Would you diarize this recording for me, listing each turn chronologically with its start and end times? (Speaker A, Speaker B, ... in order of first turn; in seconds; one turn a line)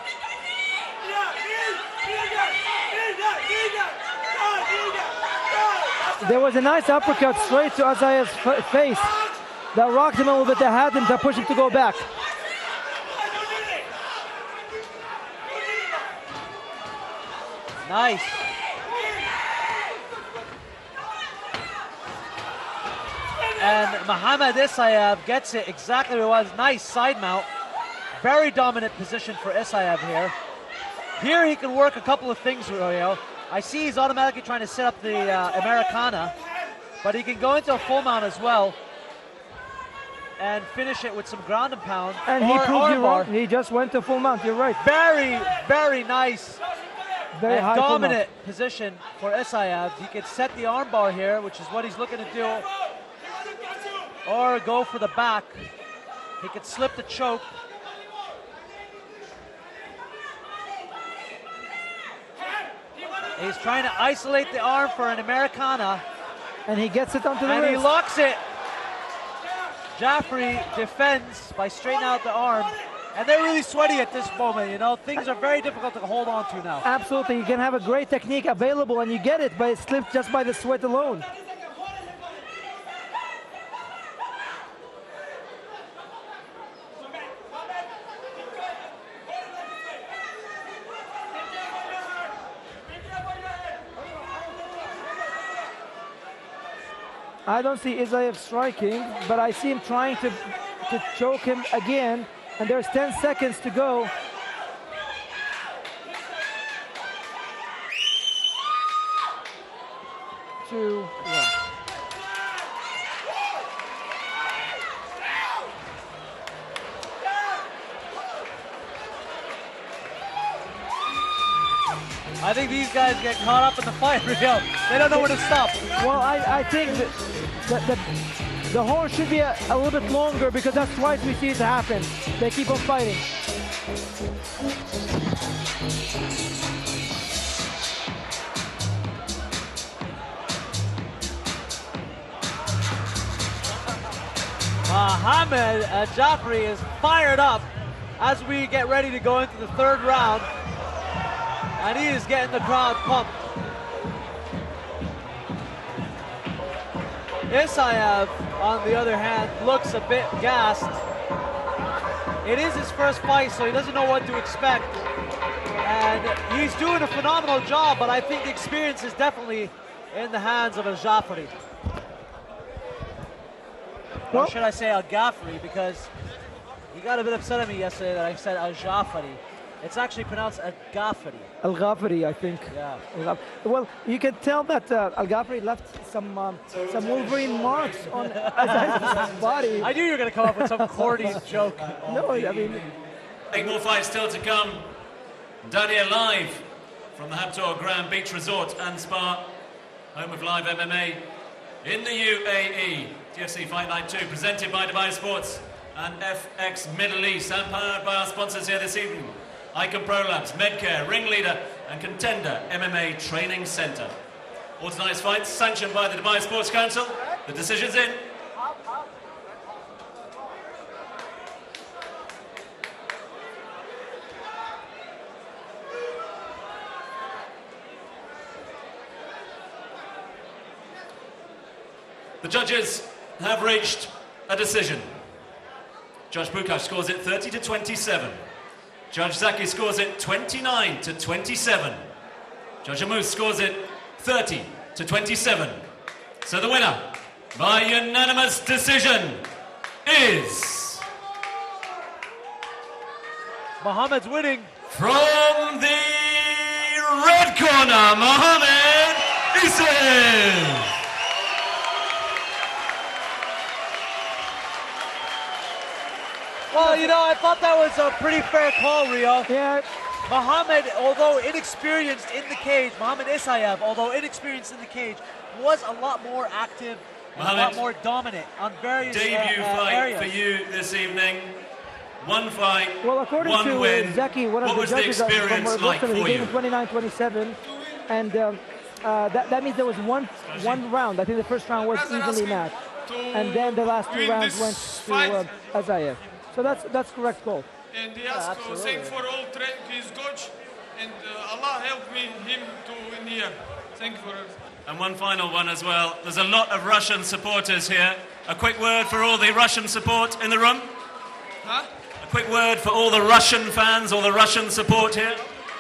Speaker A: 6.2-9.1
Speaker A: 9.7-12.1
Speaker B: 17.9-18.4
Speaker B: 23.6-27.5
Speaker B: 28.2-30.3
Speaker B: 31.2-36.3
Speaker B: 37.0-38.8
Speaker B: 40.4-43.3
Speaker A: 42.3-44.8
Speaker B: 44.8-46.6
Speaker A: 47.3-48.2
Speaker B: 47.5-52.7
Speaker B: 54.2-55.7
Speaker B: 56.4-57.5
Speaker B: 63.4-66.0
Speaker A: 66.7-67.9
Speaker B: 67.5-68.4
Speaker B: 69.9-76.9
Speaker A: 76.8-81.3
Speaker A: 97.5-104.1
Speaker A: 110.6-111.5
Speaker B: 122.4-125.8
Speaker A: 126.0-128.1
Speaker A: 128.7-133.2
Speaker B: 144.9-150.5
Speaker B: 151.8-153.4
Speaker B: 157.5-161.0
Speaker B: 162.4-165.0
Speaker B: 165.8-171.5
Speaker B: 174.3-176.1
Speaker B: 176.9-181.5
Speaker A: 181.6-189.9
Speaker B: 182.7-183.0
Speaker C: 186.7-190.0
Speaker B: 188.4-189.0
Speaker B: 189.8-192.0
Speaker A: 190.4-191.3
Speaker C: 191.3-192.9
Speaker A: 192.1-192.9
Speaker C: 193.5-194.9
Speaker C: 195.6-199.5
Speaker C: 200.1-201.3
Speaker C: 201.8-214.1
Speaker C: 214.8-218.3
Speaker C: 232.4-235.1
Speaker C: 236.3-238.4
Speaker C: 239.1-242.0
Speaker C: 242.8-245.8
Speaker C: 246.4-249.5
Speaker C: 250.1-251.1
Speaker B: 253.8-254.7
Speaker C: 254.9-260.9
Speaker B: 266.7-269.5
Speaker A: 266.7-267.1
Speaker A: 269.5-269.9
Speaker B: 270.3-280.4
Speaker C: 277.4-277.8
Speaker C: 279.0-281.6
Speaker C: 282.2-286.6
Speaker A: 283.0-292.8
Speaker D: 287.7-288.0
Speaker C: 290.4-290.9
Speaker D: 291.9-295.8
Speaker A: 293.3-297.7
Speaker D: 297.9-304.6
Speaker B: 298.3-299.2
Speaker C: 304.9-310.9
Speaker D: 311.6-311.9
Speaker C: 312.2-315.4